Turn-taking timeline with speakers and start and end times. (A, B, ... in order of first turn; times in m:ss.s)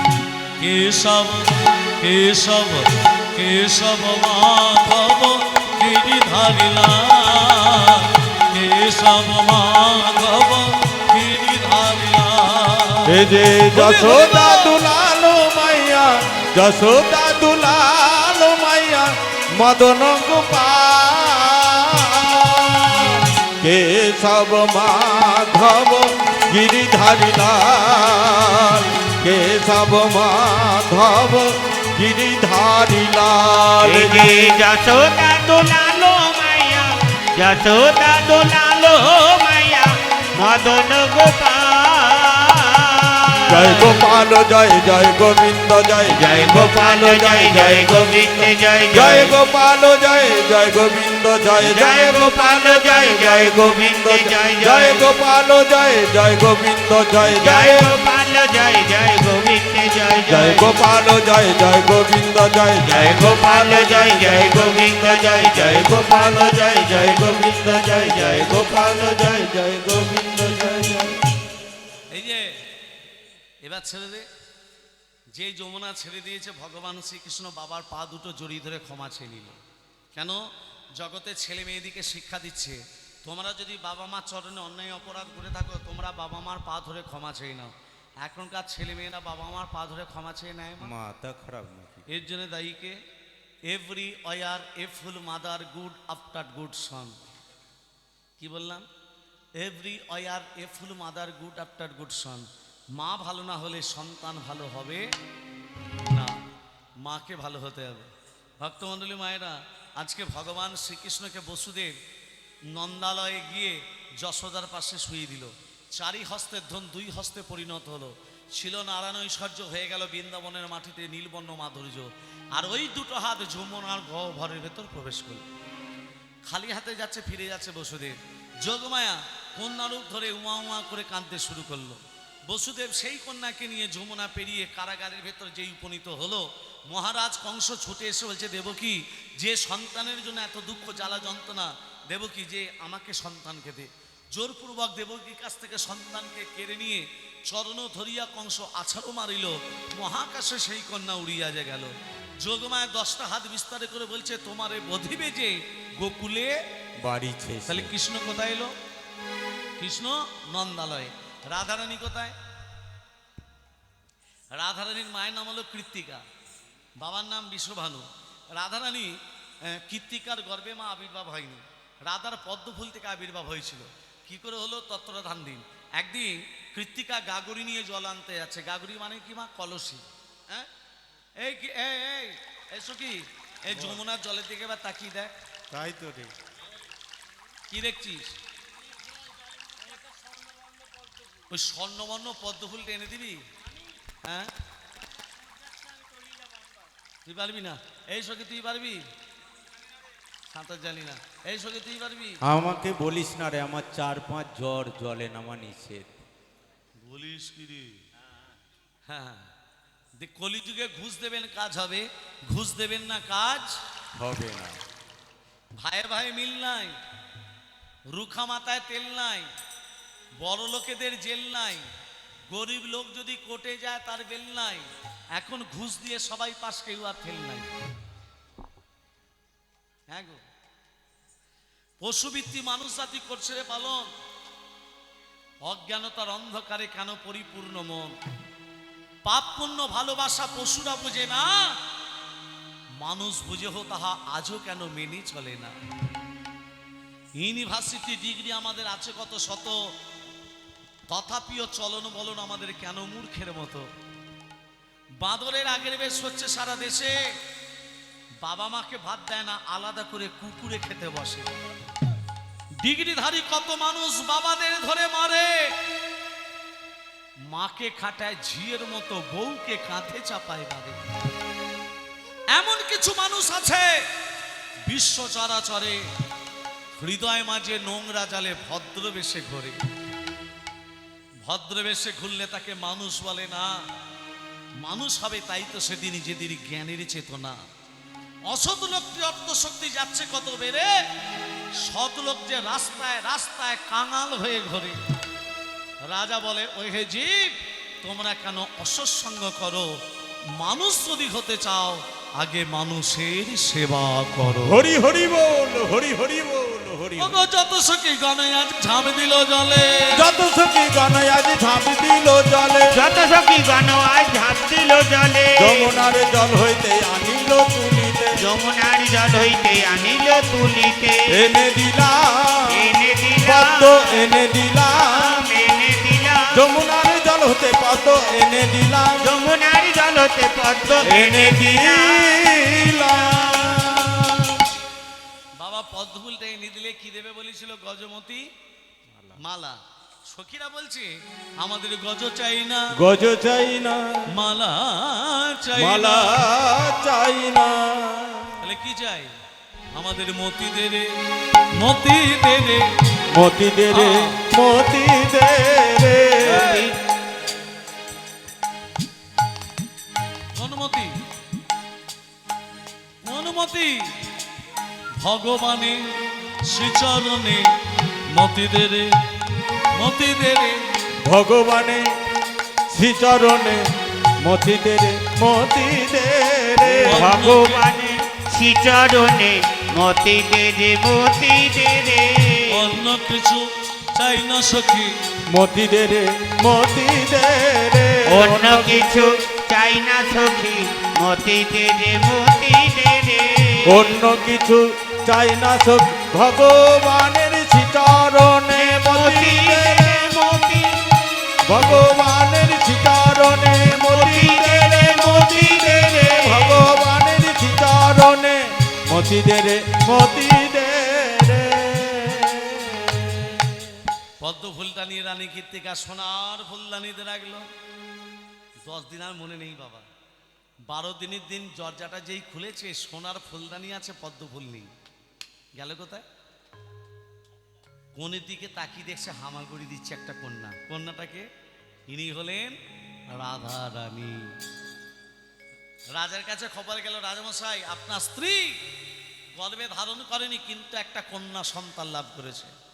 0:00.6-0:14.8 A
0:13.1-0:34.6 B
0:33.8-0:44.0 C
0:43.5-0:57.9 B
0:46.1-0:49.4 C
0:51.6-0:55.1 C
0:57.3-1:00.7 C
1:00.3-1:11.2 B
1:02.8-1:08.9 C
1:12.1-1:12.5 A
1:13.6-1:14.2 A
1:15.3-1:19.6 A
1:20.1-1:20.4 A
1:21.0-1:30.9 A
1:30.8-1:32.0 B
1:32.1-1:33.0 A
1:33.7-1:37.2 A
1:38.4-1:38.9 A
1:39.6-1:45.0 A
1:46.1-1:46.4 A
1:47.0-1:51.9 A
1:52.7-2:05.4 A
2:06.5-2:36.6 A
2:37.0-2:37.9 B
2:37.7-2:38.7 A
2:39.8-2:42.4 A
2:44.5-2:46.2 A
2:47.0-3:00.7 A
3:01.4-3:05.3 A
3:03.7-3:04.0 B
3:05.7-3:06.3 B
3:07.7-3:08.4 A
3:11.5-3:13.4 A
3:14.2-3:14.5 A
3:17.2-3:19.0 A
3:20.5-3:22.4 A
3:22.4-3:26.1 B
3:27.0-3:28.0 A
3:29.1-3:29.5 A
3:30.2-3:33.8 A
3:34.2-3:34.8 B
3:35.8-3:37.0 A
3:38.1-3:39.5 A
3:40.4-3:41.9 A
3:42.5-3:47.7 A
3:50.1-3:50.4 A
3:52.0-3:54.1 A
3:55.6-3:58.1 A
3:59.2-4:01.7 A
4:03.0-4:05.8 A
4:07.4-4:09.8 A
4:11.1-4:13.9 A
4:15.2-4:17.2 A
4:18.4-4:21.5 A
4:22.8-4:25.7 A
4:27.5-4:31.0 A
4:32.5-4:34.0 A
4:34.9-4:36.0 A
4:37.0-4:39.8 A
4:41.4-4:43.8 A
4:44.8-4:47.6 A
4:48.5-4:50.9 A
4:51.8-4:55.0 A
4:56.1-4:59.9 A
5:00.6-5:04.8 A
5:04.6-5:07.4 B
5:07.2-5:10.2 A
5:10.1-5:13.2 B
5:12.9-5:15.9 C
5:15.6-5:18.4 B
5:18.4-5:21.5 C
5:21.3-5:22.9 B
5:22.7-5:24.3 C
5:23.4-5:25.4 B
5:25.0-5:26.7 C
5:26.5-5:29.3 B
5:29.2-5:32.5 C
5:31.0-5:34.6 B
5:35.6-5:38.4 A
5:39.1-5:39.4 B
5:39.4-5:42.9 A
5:42.9-5:44.3 B
5:44.3-5:46.4 A
5:45.8-5:48.6 B
5:48.6-5:49.3 A
5:49.9-5:51.2 A
5:51.8-5:52.9 A
5:53.3-5:56.7 B
5:53.9-5:54.4 A
5:56.4-5:56.9 A
5:56.5-5:57.0 C
6:00.5-6:01.2 A
6:03.2-6:04.0 A
6:05.2-6:06.1 A
6:06.6-6:07.7 A
6:08.3-6:09.2 A
6:09.9-6:10.8 A
6:11.2-6:12.1 B
6:12.9-6:13.8 B
6:14.4-6:17.8 B
6:16.9-6:17.8 A
6:17.1-6:22.9 C
6:22.7-6:25.2 A
6:25.5-6:29.2 B
6:28.3-6:34.2 C
6:33.8-6:40.3 B
6:38.7-6:41.0 C
6:41.7-6:53.8 B
6:43.9-6:46.8 C
6:54.4-6:57.6 A
6:58.8-7:00.0 A
7:00.9-7:04.9 A
7:05.8-7:06.2 A
7:08.1-7:11.5 A
7:12.1-7:12.8 A
7:13.3-7:14.5 A
7:16.1-7:18.8 A
7:19.6-7:22.7 A